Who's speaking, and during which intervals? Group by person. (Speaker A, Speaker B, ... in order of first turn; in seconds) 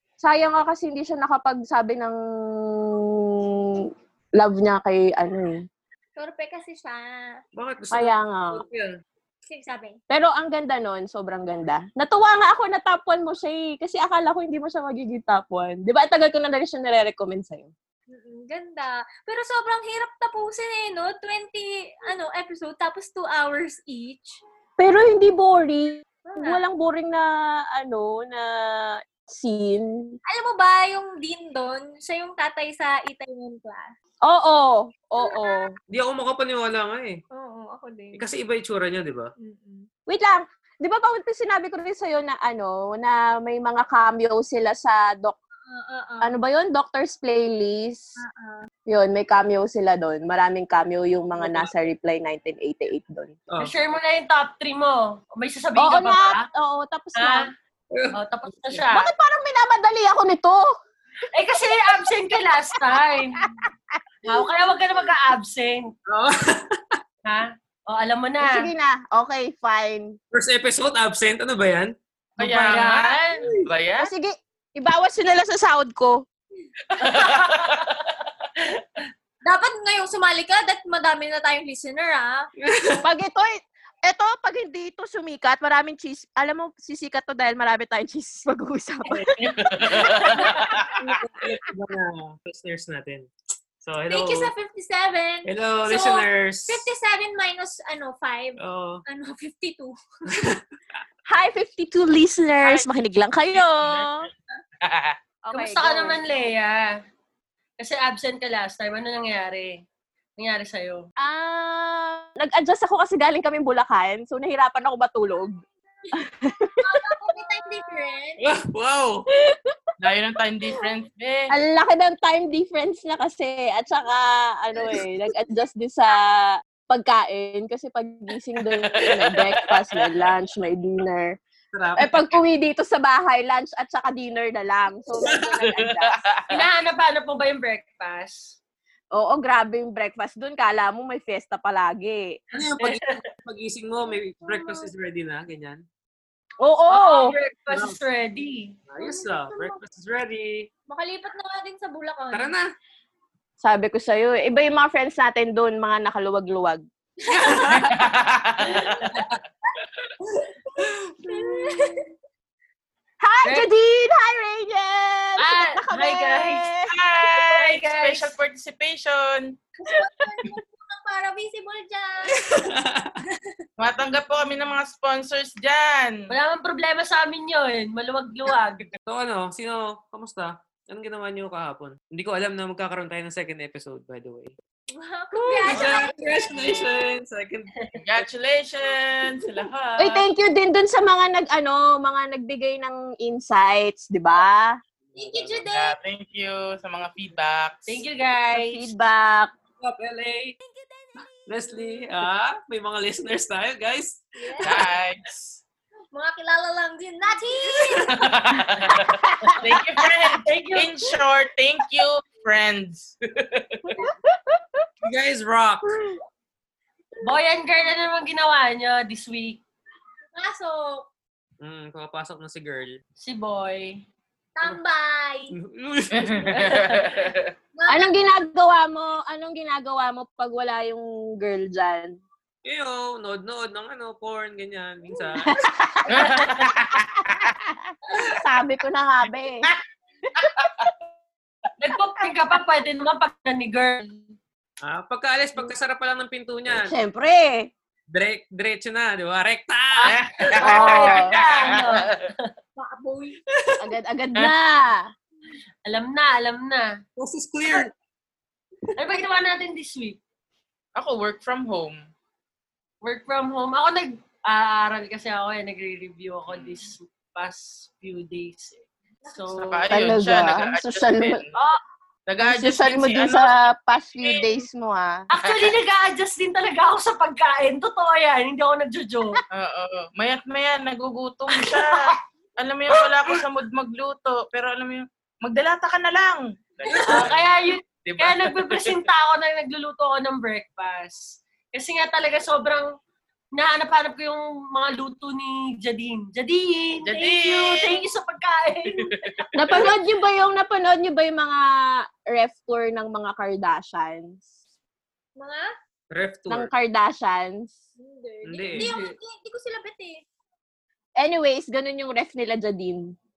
Speaker A: 0.2-2.2, 2.9-5.6, 7.9-8.6, 10.1-17.7, 24.8-30.1, 34.2-35.7, 40.1-45.4, 46.2-48.1, 48.9-53.4, 55.8-57.5, 58.9-60.7, 61.6-62.1, 63.2-64.0, 68.4-70.2, 74.0-76.2, 83.0-89.7, 101.3-104.3, 105.4-106.2, 111.2-115.6, 116.1-117.3, 121.5-131.4, 132.0-136.2, 139.1-142.4, 146.6-147.3, 153.6-156.8, 161.3-162.0, 163.2-166.9, 185.5-185.8, 190.0-194.8, 198.5-199.5, 200.7-201.3, 209.2-209.6, 214.0-214.5, 227.9-232.2, 235.4-239.7, 240.5-240.8, 246.7-247.7, 250.6-251.4, 253.8-255.1, 269.9-271.4, 272.4-275.2, 299.6-301.6, 302.3-304.5, 306.5-307.8, 311.2-313.1
Speaker B: 6.2-7.4, 9.5-10.0, 18.1-24.4, 26.2-26.6, 30.3-33.9, 35.2-35.6, 37.3-38.2, 39.4-39.9, 45.7-46.3, 48.2-48.7, 79.5-82.5, 94.1-100.0, 116.8-118.5, 144.5-144.8, 149.0-149.8, 150.9-152.6, 157.2-157.8, 161.3-162.1, 169.8-172.7, 184.9-187.0, 195.2-196.0, 204.4-204.9, 206.1-208.2, 220.3-221.1, 224.6-225.6, 227.8-228.1, 252.8-253.4, 305.4-305.7, 308.0-310.2
Speaker C: 7.6-8.9, 35.9-37.2, 38.1-39.3, 51.4-51.7, 57.9-58.8, 66.1-67.0, 70.3-72.8, 82.6-83.0, 91.0-93.3, 93.8-94.5, 95.5-96.9, 98.6-99.0, 100.3-100.6, 118.4-119.3, 131.7-132.4, 135.2-135.5, 142.5-145.8, 147.7-148.0, 148.9-150.7, 152.3-152.6, 157.3-158.1, 160.3-161.1, 172.3-173.2, 179.1-184.6, 185.7-188.2, 195.1-195.6, 199.8-200.6, 201.5-204.8, 207.9-208.2, 215.0-215.9, 221.6-223.0, 225.6-226.9, 232.7-235.5, 244.8-246.9, 248.1-250.5, 253.5-253.9, 257.2-257.9, 286.9-287.3, 306.1-306.7, 308.4-309.0
Speaker D: 53.6-56.5, 57.2-57.5, 58.1-59.1, 61.3-63.4, 64.2-65.9, 67.3-68.7, 72.6-73.5, 77.0-77.7, 105.5-107.0, 107.8-109.8, 110.4-111.1, 136.5-138.6, 142.8-143.1, 146.9-148.8, 163.4-163.7, 165.4-166.6, 167.5-168.3, 176.3-178.9, 197.9-198.8, 210.3-210.9, 217.2-219.6, 223.2-224.1, 241.8-244.2, 250.0-252.5, 255.9-257.0, 259.0-260.2, 263.0-269.9, 271.6-271.8, 275.3-279.4, 281.6-282.0, 286.9-292.9, 293.6-299.9, 308.7-309.1
Speaker E: 72.4-74.1, 76.9-78.1, 89.4-91.0, 102.6-102.9, 103.5-104.3, 104.8-105.2, 120.0-121.5, 128.9-129.7, 135.7-136.6, 157.6-159.2, 166.9-169.5, 173.8-176.2, 188.0-190.2, 195.7-198.0, 204.6-205.6, 208.0-214.0, 226.1-227.5, 236.1-237.6, 240.3-240.9, 250.1-252.3, 261.0-262.0, 266.5-266.9, 269.6-271.5, 272.3-273.5, 275.4-275.7, 279.5-289.0, 297.0-298.0, 298.9-299.9